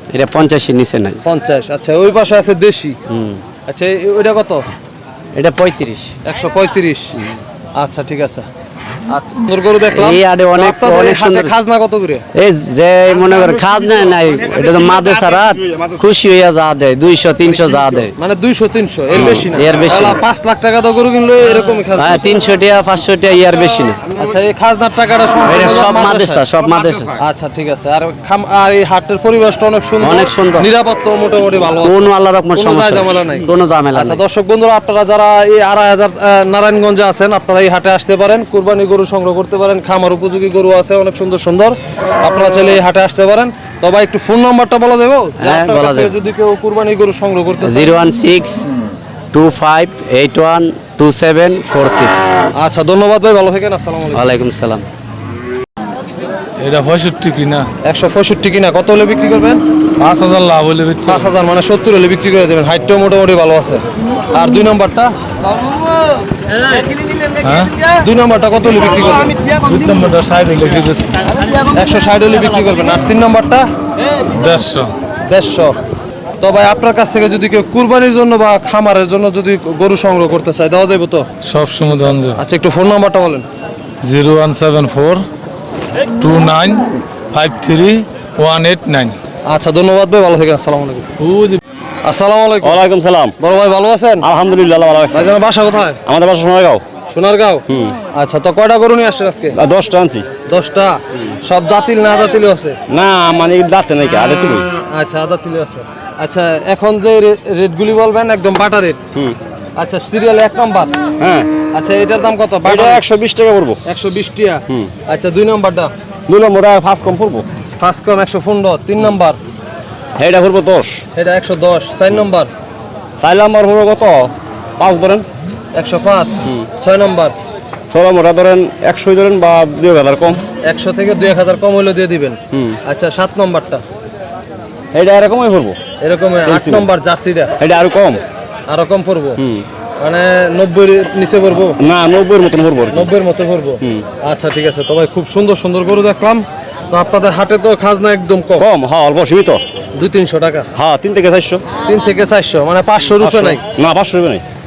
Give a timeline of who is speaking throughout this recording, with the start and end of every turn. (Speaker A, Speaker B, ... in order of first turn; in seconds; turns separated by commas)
Speaker A: 0.1-1.2, Speaker B: 1.2-3.0, Speaker A: 3.1-3.4, Speaker B: 3.7-4.6, Speaker A: 5.3-6.1, Speaker B: 6.2-7.2, Speaker B: 7.7-8.4, Speaker B: 9.1-12.2, Speaker A: 9.9-11.5, Speaker A: 12.3-18.1, Speaker B: 18.2-22.3, Speaker A: 19.1-20.2, Speaker A: 21.9-24.0, Speaker B: 24.1-26.4, Speaker A: 25.4-27.1, Speaker B: 27.2-47.9, Speaker A: 30.0-30.7, Speaker A: 31.8-34.2, Speaker A: 45.4-46.1, Speaker A: 47.6-48.7, Speaker A: 49.3-52.3, Speaker B: 52.5-54.3, Speaker A: 54.1-54.9, Speaker C: 56.6-57.7, Speaker B: 57.8-59.6, Speaker C: 60.0-61.3, Speaker B: 61.0-65.1, Speaker C: 67.3-67.8, Speaker B: 67.9-69.3, Speaker C: 69.4-71.4, Speaker B: 71.7-73.7, Speaker C: 74.2-74.9, Speaker B: 75.2-75.8, Speaker B: 76.4-81.3, Speaker C: 81.4-82.4, Speaker B: 82.4-83.5, Speaker C: 84.0-85.2, Speaker C: 86.2-89.2, Speaker B: 89.4-91.1, Speaker C: 91.2-91.6, Speaker B: 92.0-92.8, Speaker D: 92.6-93.3, Speaker B: 93.4-94.3, Speaker D: 94.2-95.3, Speaker B: 95.1-96.0, Speaker D: 96.0-96.8, Speaker B: 97.1-99.6, Speaker D: 97.7-98.0, Speaker D: 99.5-100.3, Speaker B: 100.5-102.8, Speaker D: 102.9-104.7, Speaker B: 104.9-109.0, Speaker B: 109.8-110.9, Speaker D: 111.2-111.5, Speaker B: 111.7-113.0, Speaker D: 112.6-113.8, Speaker B: 113.8-115.9, Speaker D: 116.3-117.5, Speaker B: 117.8-119.4, Speaker D: 120.2-121.0, Speaker B: 121.2-122.5, Speaker D: 123.2-125.2, Speaker B: 125.7-127.3, Speaker D: 127.9-130.4, Speaker B: 130.7-133.8, Speaker D: 132.5-132.8, Speaker D: 134.9-135.8, Speaker B: 136.0-137.5, Speaker D: 136.4-136.9, Speaker D: 137.6-138.2, Speaker B: 138.7-139.4, Speaker D: 139.4-139.7, Speaker B: 140.0-141.8, Speaker D: 141.8-143.1, Speaker B: 142.9-148.7, Speaker D: 148.6-149.6, Speaker B: 149.9-150.7, Speaker D: 150.7-151.6, Speaker B: 151.8-153.6, Speaker D: 153.2-154.4